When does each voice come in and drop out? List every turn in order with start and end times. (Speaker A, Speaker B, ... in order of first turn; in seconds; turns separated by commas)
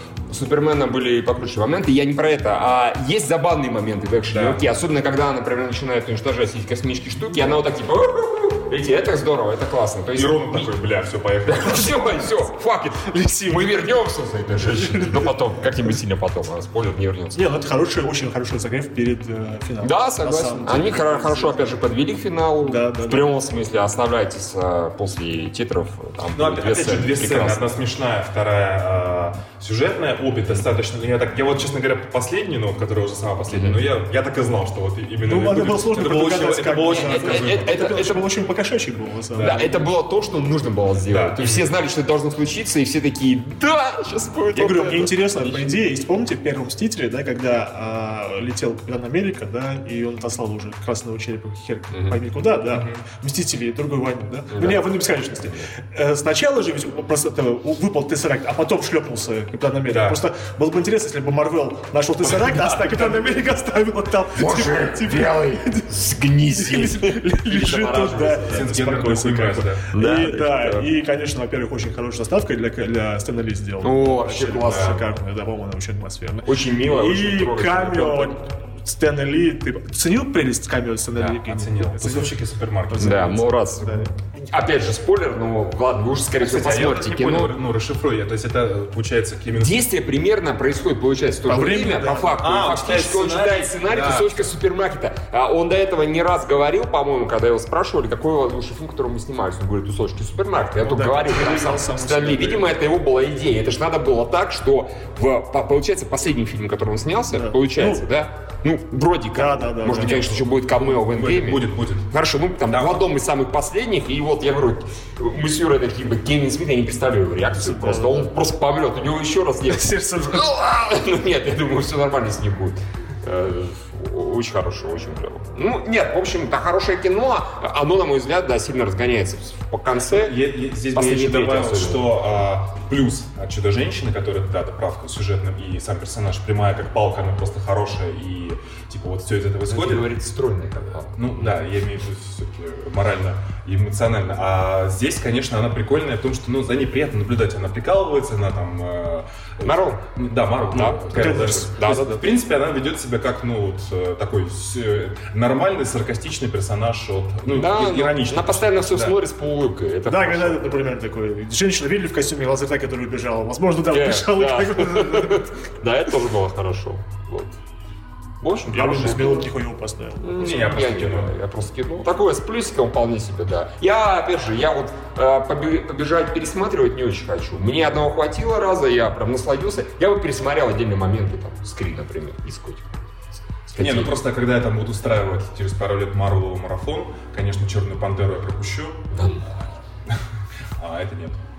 Speaker A: 0.3-10.7, Speaker B: 4.3-4.7, Speaker B: 10.1-12.3, Speaker A: 11.4-17.4, Speaker C: 13.0-13.9, Speaker C: 14.8-15.3, Speaker C: 17.3-21.8, Speaker A: 19.8-27.7, Speaker C: 22.6-23.3, Speaker B: 26.3-38.0, Speaker A: 33.5-33.8, Speaker C: 35.2-39.6, Speaker A: 36.9-38.3, Speaker B: 39.3-39.9, Speaker A: 39.4-45.7, Speaker B: 41.1-41.7, Speaker C: 44.5-84.1, Speaker B: 52.7-53.0, Speaker A: 54.5-54.9, Speaker B: 59.9-60.2, Speaker B: 62.2-63.5, Speaker A: 64.3-68.4, Speaker B: 67.7-69.9, Speaker A: 69.9-70.9, Speaker A: 73.8-75.0, Speaker B: 74.4-75.0, Speaker A: 76.4-78.3, Speaker B: 81.1-83.2, Speaker A: 82.9-87.6, Speaker B: 86.4-89.8, Speaker A: 89.5-130.3, Speaker C: 91.5-92.5, Speaker B: 92.4-94.5, Speaker C: 100.8-102.7, Speaker C: 107.3-108.0, Speaker C: 109.3-110.2, Speaker B: 110.0-112.1, Speaker B: 112.7-113.1, Speaker C: 117.6-118.3, Speaker C: 119.7-120.5, Speaker B: 130.1-140.1, Speaker A: 130.9-132.1, Speaker A: 139.7-141.6, Speaker B: 141.1-159.2, Speaker A: 149.6-150.0, Speaker A: 150.7-152.2, Speaker C: 151.1-151.8, Speaker A: 157.5-160.6, Speaker C: 160.1-165.4, Speaker A: 163.9-167.6, Speaker A: 168.4-169.5, Speaker C: 168.7-170.4, Speaker A: 170.2-184.2, Speaker B: 170.3-171.3, Speaker B: 183.8-189.1, Speaker A: 189.1-189.4, Speaker B: 190.8-191.4